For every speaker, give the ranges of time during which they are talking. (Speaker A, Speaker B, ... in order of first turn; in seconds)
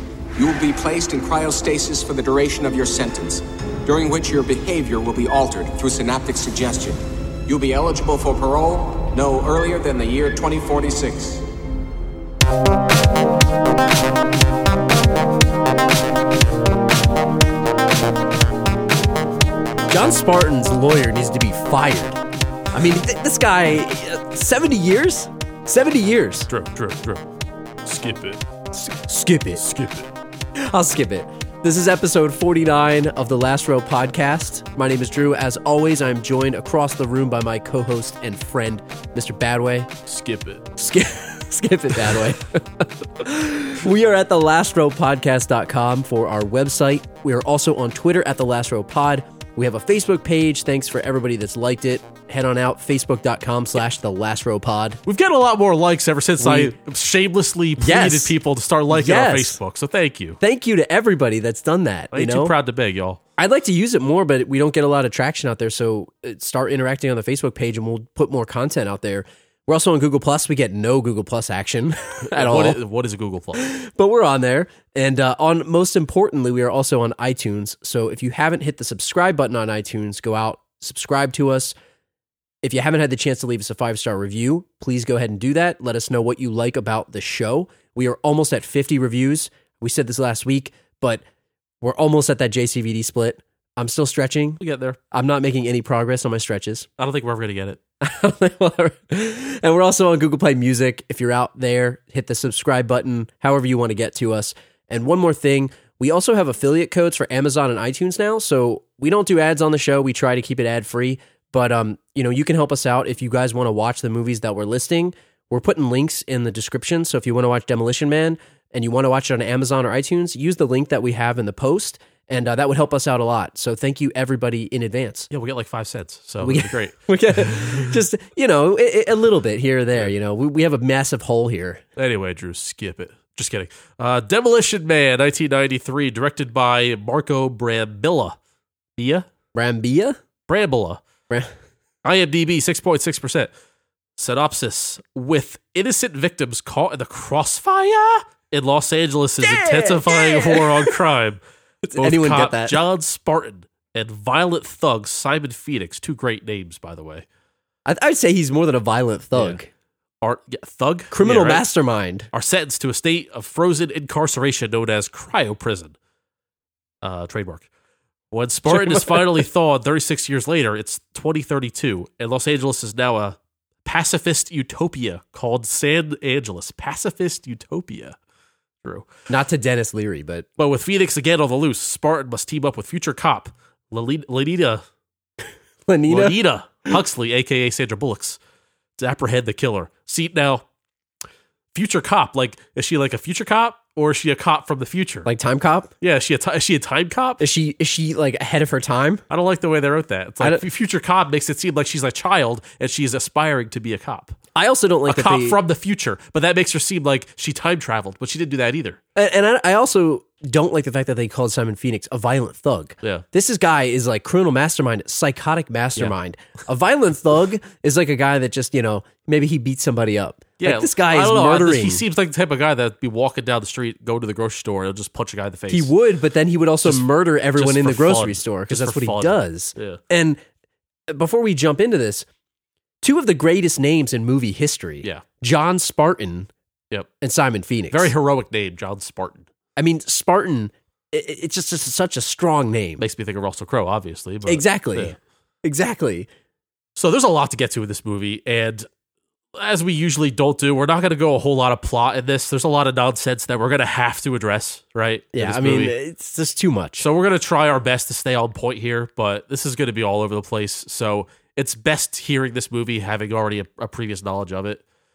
Speaker A: 0.3-11.4
Speaker B: 19.9-22.2, 22.7-26.5, 28.7-29.6, 30.6-39.9, 40.8-55.0, 56.4-56.7, 57.8-58.3, 58.9-59.6, 60.4-62.5, 63.4-72.8, 73.5-81.7, 82.6-91.2, 91.8-96.9, 98.0-125.3, 126.4-131.8, 139.5-140.2, 149.4-151.0, 151.8-152.8, 157.8-159.7, 161.1-162.3, 168.7-169.4, 179.3-180.4, 185.9-186.4, 195.2-195.9, 197.4-199.2, 204.5-205.6, 209.1-222.0, 225.7-230.4, 231.1-232.2, 233.0-236.5, 237.2-238.1, 239.8-243.0, 244.4-246.3, 255.3-257.1
Speaker C: 26.5-27.2, 27.8-28.4, 29.6-30.1, 40.0-40.7, 55.0-60.4, 62.1-63.2, 72.2-73.6, 94.6-95.0, 97.0-97.8, 125.3-127.9, 131.9-138.4, 138.9-139.3, 140.5-141.0, 142.0-143.5, 144.2-151.4, 152.0-157.2, 160.2-161.6, 162.3-165.9, 167.0-167.7, 168.3-178.2, 180.6-184.8, 186.1-188.4, 189.0-190.6, 191.7-195.3, 196.0-197.4, 199.3-204.3, 205.1-209.0, 220.6-225.9, 226.8-230.0, 237.9-239.5, 243.0-245.2, 246.9-248.9, 249.5-255.9, 257.0-264.8